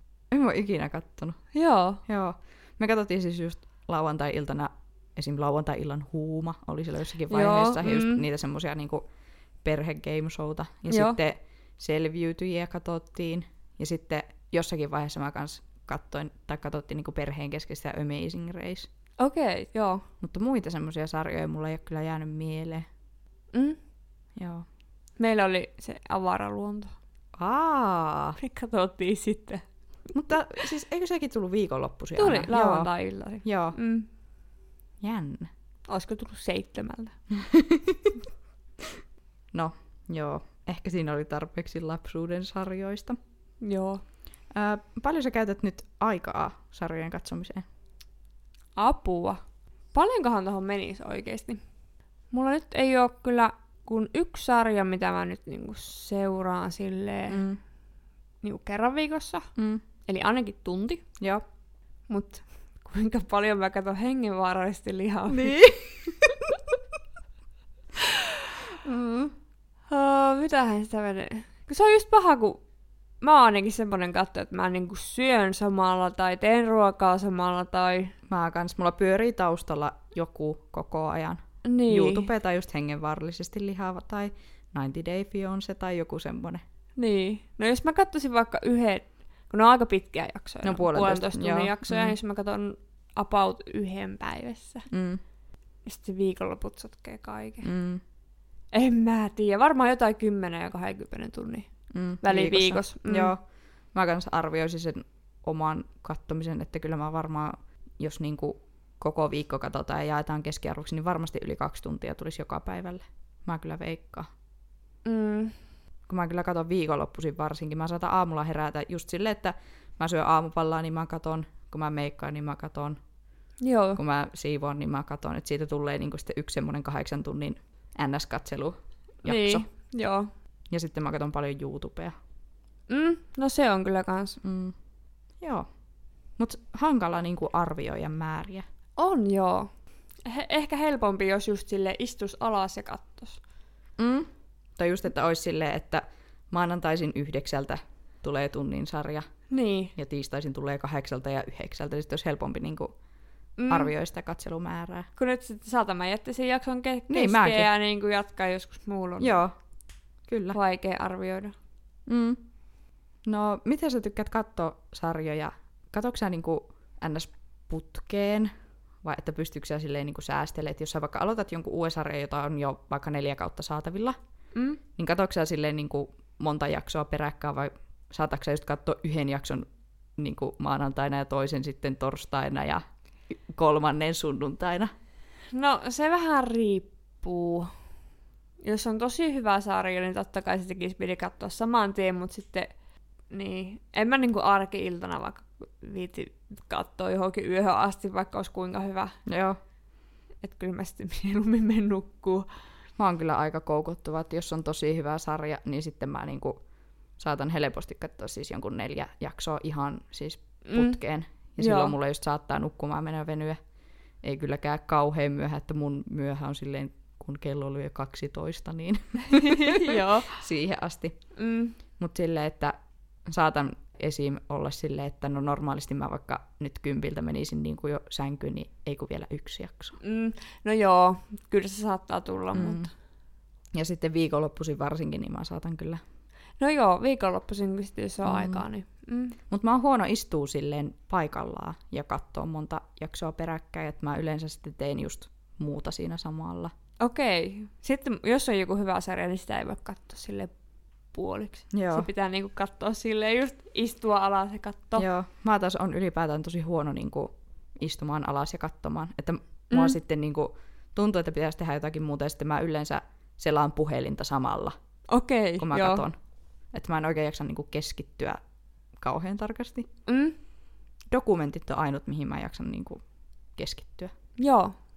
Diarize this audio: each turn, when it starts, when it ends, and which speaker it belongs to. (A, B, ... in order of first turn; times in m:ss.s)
0:00.3-0:01.4 A
0:01.5-0:02.0 B
0:02.1-0:09.0 A
0:07.3-0:08.2 B
0:09.6-0:18.9 A
0:10.9-0:11.2 B
0:19.2-0:20.0 B
0:20.2-0:22.9 A
0:23.5-0:23.8 B
0:24.4-0:24.7 A
0:25.2-0:26.9 B
0:27.4-0:28.4 A
0:28.4-0:29.6 B
0:30.1-0:32.9 A
0:32.2-0:34.1 B
0:33.4-0:33.8 A
0:35.0-0:35.5 A
0:35.9-0:37.2 B
0:37.3-0:38.2 A
0:39.5-0:43.2 A
0:43.6-0:44.0 B
0:44.5-0:47.6 A
0:48.8-0:49.4 B
0:49.9-0:51.6 B
0:52.3-0:57.4 B
0:57.3-0:57.6 A
0:58.4-0:59.5 B
0:59.6-0:59.8 A
1:00.1-1:01.0 B
1:02.1-1:05.6 B
1:05.3-1:06.6 A
1:08.8-1:09.3 A
1:09.9-1:12.6 B
1:13.2-1:18.2 B
1:18.3-1:26.6 A
1:21.6-1:22.3 B
1:27.0-1:34.9 B
1:30.6-1:32.2 A
1:34.9-1:35.2 A
1:35.9-1:37.7 B
1:37.6-1:38.0 A
1:38.7-1:41.7 B
1:41.9-1:43.4 A
1:42.2-1:43.3 B
1:43.9-1:54.3 A
1:55.0-1:55.5 B
1:56.1-2:03.0 A
2:03.6-2:04.0 B
2:04.0-2:09.7 A
2:09.2-2:10.3 B
2:10.7-2:12.2 A
2:12.9-2:14.4 B
2:14.4-2:14.8 A
2:15.4-2:15.7 A
2:16.4-2:18.6 A
2:19.0-2:19.7 B
2:20.2-2:23.4 B
2:24.0-2:29.3 A
2:29.5-2:29.9 B
2:30.0-2:33.0 A
2:33.6-2:33.9 B
2:33.7-2:35.1 A
2:35.2-2:39.4 B
2:37.1-2:37.7 A
2:39.2-2:39.5 A
2:40.3-2:40.6 A
2:40.5-2:41.6 B
2:42.1-2:42.4 A
2:43.2-2:48.5 A
2:49.0-2:54.2 A
2:54.6-2:54.8 B
2:55.0-3:04.9 A
3:05.5-3:07.8 B
3:08.6-3:12.7 B
3:13.3-3:19.2 B
3:19.3-3:19.6 A
3:20.4-3:22.5 B
3:23.0-3:26.6 A
3:27.2-3:33.6 A
3:30.6-3:31.0 B
3:31.6-3:32.0 B
3:34.2-3:41.2 A
3:39.3-3:40.4 B
3:41.4-3:41.8 B
3:42.0-3:42.8 A
3:43.3-3:50.0 A
3:50.0-3:52.9 B
3:52.5-3:52.9 A
3:53.7-3:56.0 A
3:56.6-3:59.4 B
3:58.2-3:58.6 A
3:59.5-4:06.7 A
4:07.0-4:10.5 B
4:11.1-4:15.1 B
4:11.7-4:12.1 A
4:15.0-4:24.8 A
4:19.7-4:20.0 B
4:25.1-4:26.1 B
4:25.6-4:26.2 A
4:26.7-4:28.4 A
4:29.0-4:29.9 A
4:30.1-4:30.4 B
4:31.1-4:33.0 A
4:33.6-4:34.1 A
4:34.4-4:34.7 B